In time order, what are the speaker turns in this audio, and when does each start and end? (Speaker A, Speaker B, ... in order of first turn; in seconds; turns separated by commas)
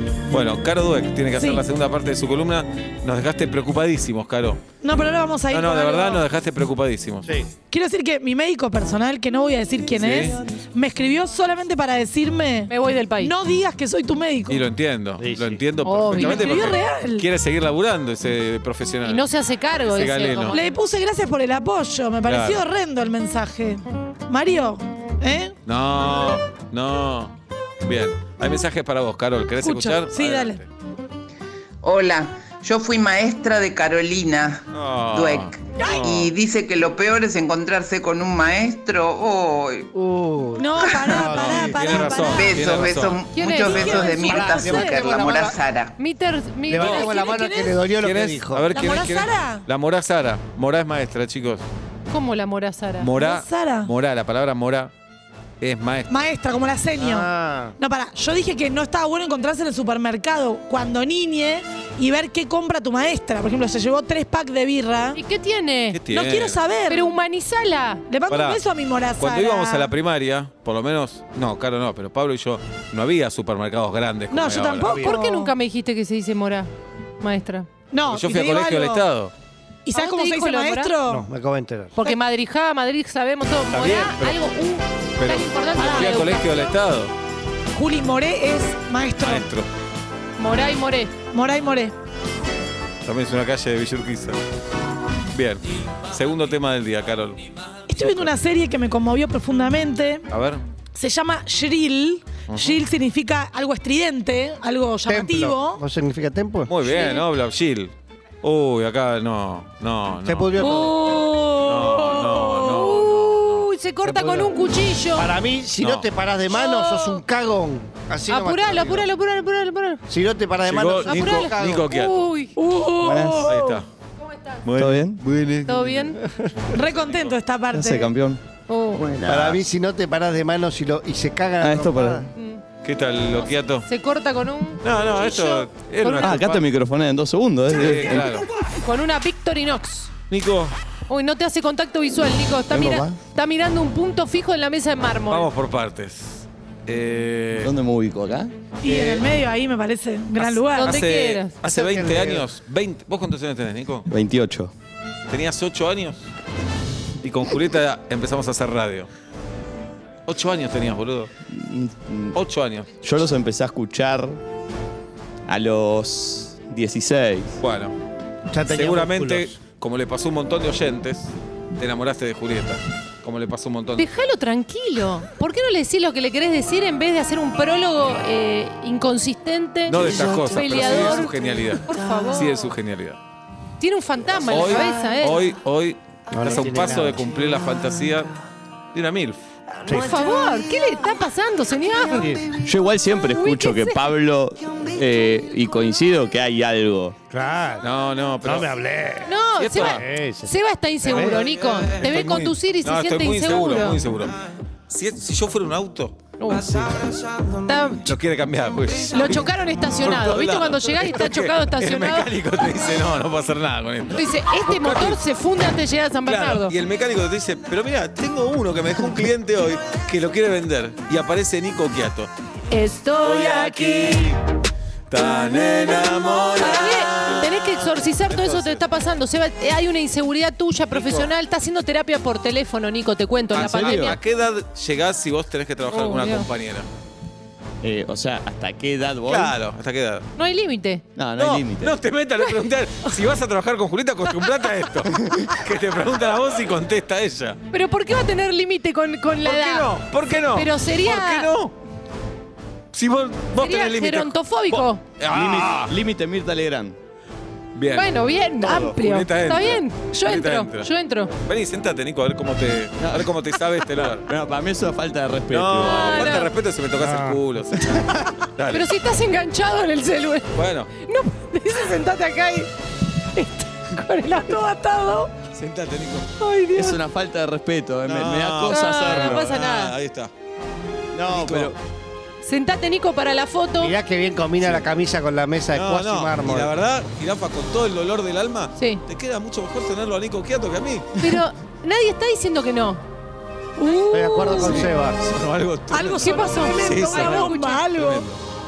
Speaker A: 0.3-4.6, Speaker B: 1.4-1.6, Speaker B: 4.8-6.3, Speaker A: 5.5-7.3, Speaker C: 7.2-7.5, Speaker B: 7.7-14.7, Speaker A: 9.8-10.4, Speaker D: 12.7-13.3, Speaker A: 14.5-19.3, Speaker C: 15.2-15.6, Speaker D: 15.8-16.6, Speaker B: 16.1-17.3, Speaker D: 19.0-20.6, Speaker A: 19.9-20.6, Speaker B: 20.5-25.5, Speaker A: 22.2-22.6, Speaker A: 25.6-30.7, Speaker B: 29.6-30.6, Speaker E: 31.8-34.6, Speaker A: 34.7-36.3, Speaker E: 35.1-39.9, Speaker B: 35.8-36.0, Speaker C: 39.9-42.2, Speaker B: 40.6-42.9, Speaker E: 40.9-41.3, Speaker A: 41.2-43.3, Speaker E: 42.3-45.9, Speaker D: 43.3-43.9, Speaker B: 43.4-45.1, Speaker C: 44.2-45.6, Speaker D: 46.0-47.3, Speaker C: 46.7-48.8, Speaker A: 46.7-47.1, Speaker B: 47.0-47.9, Speaker A: 47.9-51.6, Speaker B: 48.7-49.7, Speaker D: 52.1-53.1, Speaker A: 53.0-54.9, Speaker B: 53.1-53.9, Speaker A: 55.6-56.1, Speaker B: 56.1-65.2, Speaker C: 57.0-57.8, Speaker D: 65.1-66.0, Speaker A: 65.9-66.6, Speaker B: 66.1-67.2, Speaker D: 66.9-68.0, Speaker B: 68.1-69.9, Speaker A: 68.2-68.6, Speaker A: 69.2-75.0, Speaker B: 74.3-75.5, Speaker C: 74.8-75.2, Speaker D: 75.0-76.7, Speaker D: 77.2-77.7, Speaker B: 77.9-79.0, Speaker A: 78.1-79.3, Speaker B: 79.8-81.2, Speaker D: 79.9-81.0, Speaker C: 81.0-81.9, Speaker D: 82.0-86.7, Speaker A: 83.7-84.4, Speaker A: 85.2-87.1, Speaker B: 85.7-86.4, Speaker B: 87.7-89.5, Speaker A: 89.2-89.7, Speaker D: 90.4-91.2, Speaker B: 91.3-91.9, Speaker A: 93.0-94.4, Speaker A: 95.3-97.4, Speaker B: 97.9-100.2, Speaker A: 98.0-98.3, Speaker A: 100.3-100.6, Speaker B: 100.9-105.8, Speaker A: 102.5-102.8, Speaker C: 105.0-106.8, Speaker A: 106.7-110.6, Speaker C: 110.2-111.0, Speaker B: 110.6-112.7, Speaker A: 111.6-113.7, Speaker D: 112.0-115.3, Speaker C: 114.0-114.5, Speaker C: 115.1-119.1, Speaker A: 115.8-116.1, Speaker D: 116.5-117.2, Speaker D: 118.3-120.0, Speaker C: 120.1-121.9, Speaker A: 120.6-122.3, Speaker D: 121.0-122.6, Speaker B: 122.5-123.8, Speaker F: 123.0-123.5, Speaker A: 123.5-123.9, Speaker D: 124.2-124.7, Speaker A: 124.6-126.1, Speaker F: 124.7-125.2, Speaker D: 125.6-126.2, Speaker C: 126.2-126.6, Speaker B: 126.7-128.1, Speaker A: 126.8-127.4, Speaker F: 127.7-128.4, Speaker D: 128.7-129.0, Speaker F: 128.9-129.6, Speaker C: 129.2-132.3, Speaker F: 131.6-132.3, Speaker D: 132.3-132.6, Speaker A: 132.8-133.8, Speaker D: 133.8-136.4, Speaker A: 134.8-136.6, Speaker F: 136.2-138.4, Speaker A: 137.7-138.5, Speaker D: 138.8-140.1, Speaker A: 140.3-140.8, Speaker D: 141.1-145.5, Speaker C: 142.7-143.1, Speaker A: 145.3-147.7, Speaker F: 147.6-148.5, Speaker B: 148.8-151.0, Speaker C: 148.8-149.3, Speaker A: 150.3-154.1, Speaker D: 150.7-151.5, Speaker C: 151.6-152.5, Speaker F: 154.1-154.7, Speaker A: 155.3-156.3, Speaker A: 157.2-159.1, Speaker A: 160.2-161.3, Speaker F: 161.5-162.4, Speaker A: 162.3-162.9, Speaker F: 163.0-164.4, Speaker F: 165.5-167.6, Speaker A: 167.6-167.9, Speaker C: 168.5-169.6, Speaker A: 168.7-174.1, Speaker D: 174.0-182.7, Speaker A: 179.9-183.2, Speaker D: 183.8-185.4, Speaker A: 184.5-188.3, Speaker C: 186.3-187.2, Speaker A: 188.9-189.4, Speaker C: 189.8-190.2, Speaker D: 189.9-192.4, Speaker C: 192.1-192.4, Speaker F: 192.6-197.1, Speaker D: 193.3-194.0, Speaker C: 197.3-197.9, Speaker A: 197.8-198.7, Speaker C: 198.4-201.4, Speaker D: 199.2-204.0, Speaker A: 199.5-200.0, Speaker A: 201.2-215.2, Speaker D: 206.4-206.9, Speaker D: 207.7-208.1, Speaker D: 209.1-212.3, Speaker D: 214.1-216.7, Speaker A: 216.2-222.3, Speaker D: 222.7-224.3, Speaker A: 223.2-224.3, Speaker A: 225.1-228.8, Speaker D: 226.5-234.2, Speaker A: 230.9-231.3, Speaker A: 233.5-236.9, Speaker F: 233.5-234.2, Speaker D: 235.9-236.5, Speaker F: 237.8-239.6, Speaker A: 239.3-240.2, Speaker D: 240.3-241.0, Speaker F: 241.1-242.0, Speaker A: 241.3-247.6, Speaker D: 247.7-251.5, Speaker A: 249.4-251.7, Speaker A: 252.9-254.3, Speaker D: 253.6-255.0, Speaker F: 254.7-257.0, Speaker A: 255.2-255.9, Speaker A: 257.7-258.1, Speaker D: 257.9-261.3, Speaker F: 258.6-259.0, Speaker A: 258.9-260.9, Speaker A: 261.4-264.2, Speaker F: 263.0-266.3, Speaker A: 265.5-268.9, Speaker D: 265.8-266.5, Speaker C: 267.0-267.4, Speaker C: 267.9-268.2, Speaker D: 268.7-272.7, Speaker A: 270.5-270.9, Speaker D: 273.3-274.6, Speaker B: 274.3-275.3, Speaker A: 275.5-276.3, Speaker D: 276.4-277.0, Speaker F: 276.8-279.4, Speaker A: 278.0-280.3, Speaker D: 278.7-279.9, Speaker F: 281.1-281.8, Speaker A: 281.3-281.8, Speaker D: 282.4-283.9, Speaker C: 283.8-286.7, Speaker A: 284.6-284.9, Speaker A: 285.7-291.1, Speaker D: 288.8-289.0, Speaker D: 291.2-293.0, Speaker B: 293.8-294.9, Speaker C: 294.1-295.2, Speaker A: 294.6-298.4, Speaker B: 295.9-298.3, Speaker D: 296.2-297.8